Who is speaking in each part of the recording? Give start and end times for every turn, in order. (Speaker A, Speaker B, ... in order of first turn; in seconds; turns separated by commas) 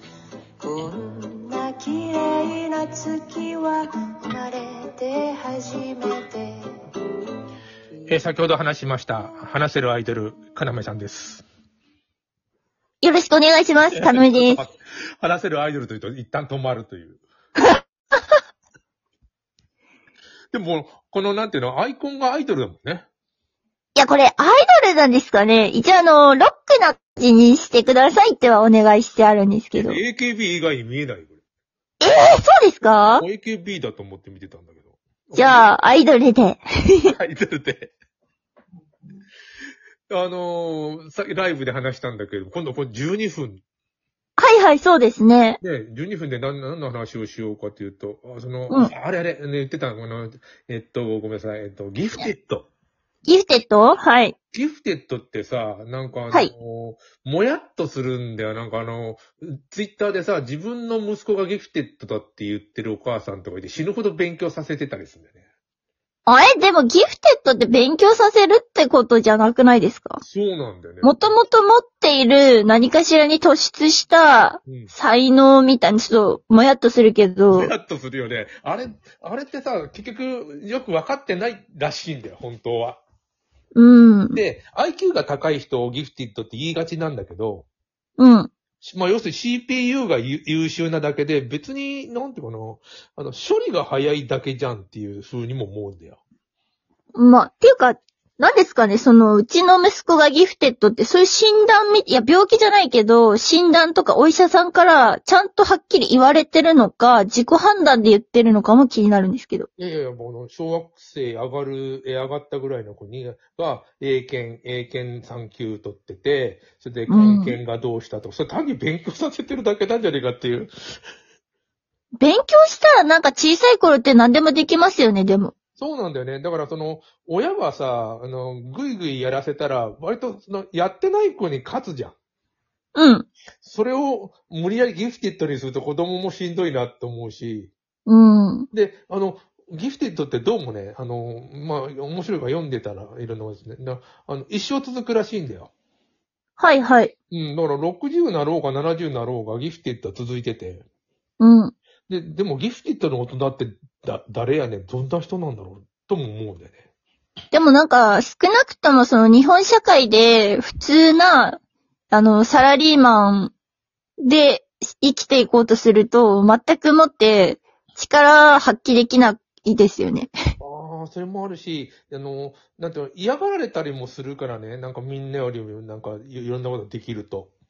Speaker A: 0.6-6.6, Speaker B: 8.1-11.4, Speaker C: 13.0-14.6, Speaker B: 13.9-17.2, Speaker B: 20.5-23.1, Speaker C: 24.0-30.0, Speaker B: 29.7-31.4, Speaker C: 32.0-33.3, Speaker B: 33.1-35.7, Speaker C: 35.3-37.1, Speaker B: 37.0-37.9, Speaker B: 40.1-43.6, Speaker C: 44.4-45.6, Speaker B: 45.6-52.7, Speaker C: 53.3-54.4, Speaker B: 54.5-65.3, Speaker C: 66.3-70.2, Speaker B: 70.2-71.4, Speaker C: 71.0-77.7, Speaker B: 74.7-74.9, Speaker B: 77.5-83.0, Speaker C: 83.8-84.4, Speaker B: 84.3-87.7, Speaker C: 88.2-88.5, Speaker B: 88.8-96.2, Speaker C: 97.2-109.7, Speaker B: 109.8-120.7, Speaker C: 117.1-117.6, Speaker C: 122.2-125.5, Speaker B: 125.8-132.2, Speaker C: 132.9-133.3, Speaker B: 133.6-137.7, Speaker C: 138.1-138.7, Speaker B: 138.7-145.7, Speaker C: 146.6-147.1, Speaker B: 147.3-150.8, Speaker C: 151.4-151.7, Speaker B: 152.1-156.8, Speaker C: 157.5-161.6, Speaker C: 162.1-163.5, Speaker C: 164.2-170.3, Speaker B: 170.6-177.5